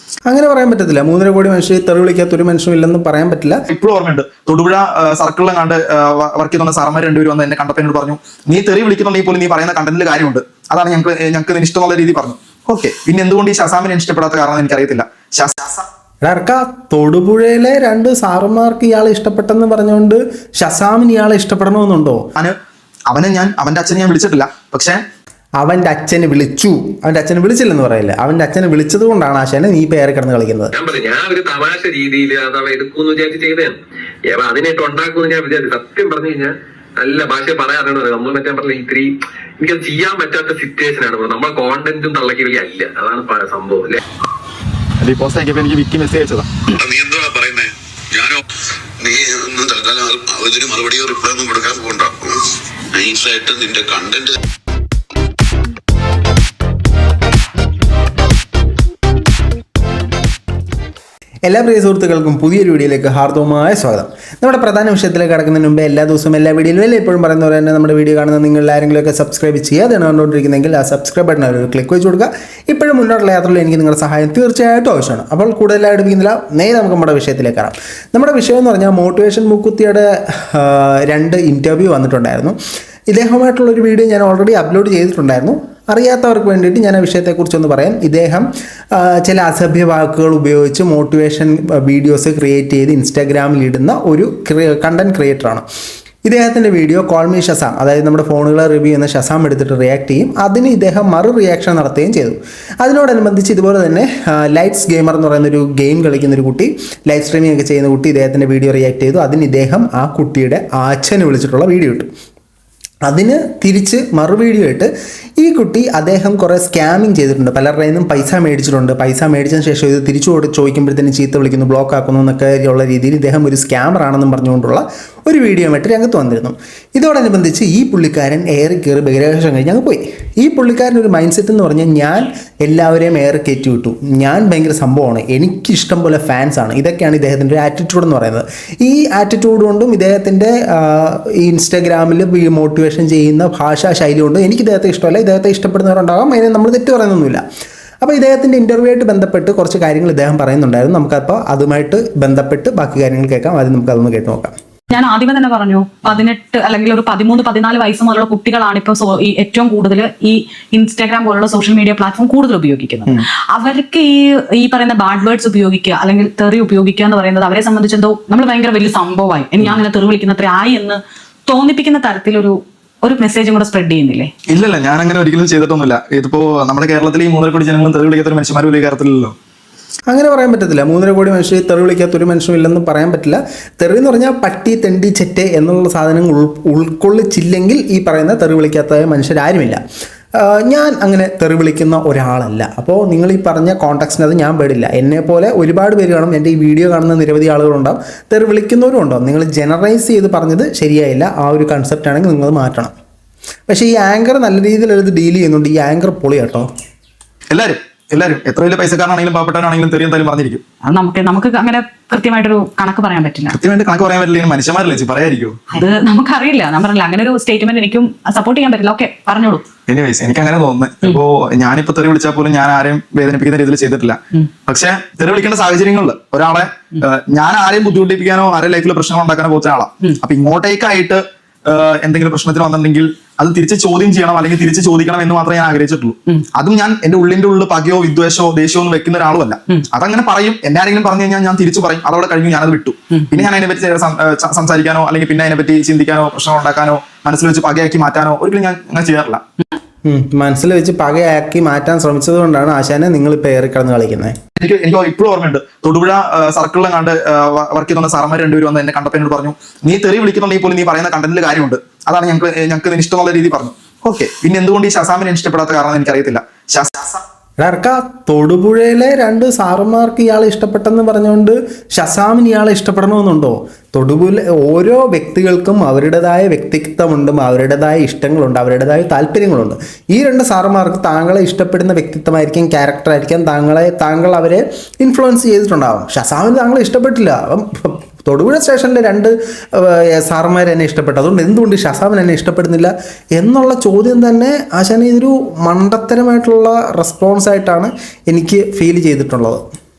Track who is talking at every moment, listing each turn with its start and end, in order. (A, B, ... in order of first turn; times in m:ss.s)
0:00.3-0:03.6 A
0:03.7-0:15.8 B
0:16.2-0:22.2 A
0:23.1-0:25.0 B
0:25.6-0:30.7 A
0:30.7-0:33.7 C
0:34.3-0:44.0 C
0:45.0-0:46.5 B
0:46.7-0:48.4 D
0:49.0-0:52.4 D
0:52.9-0:54.4 D
1:01.4-1:22.6 A
1:23.1-1:35.6 A
1:36.2-1:52.1 A
1:53.1-2:27.4 A
2:28.0-2:34.5 A
2:34.9-2:54.3 E
2:54.5-2:59.3 B
3:00.1-3:09.8 A
3:10.4-3:22.9 A
3:23.7-3:26.7 A
3:27.5-3:30.6 B
3:30.9-3:33.6 E
3:33.5-3:35.8 B
3:35.8-3:39.6 E
3:39.9-4:09.4 B
4:10.0-4:14.3 A
4:14.6-4:27.2 B
4:27.6-4:59.6 A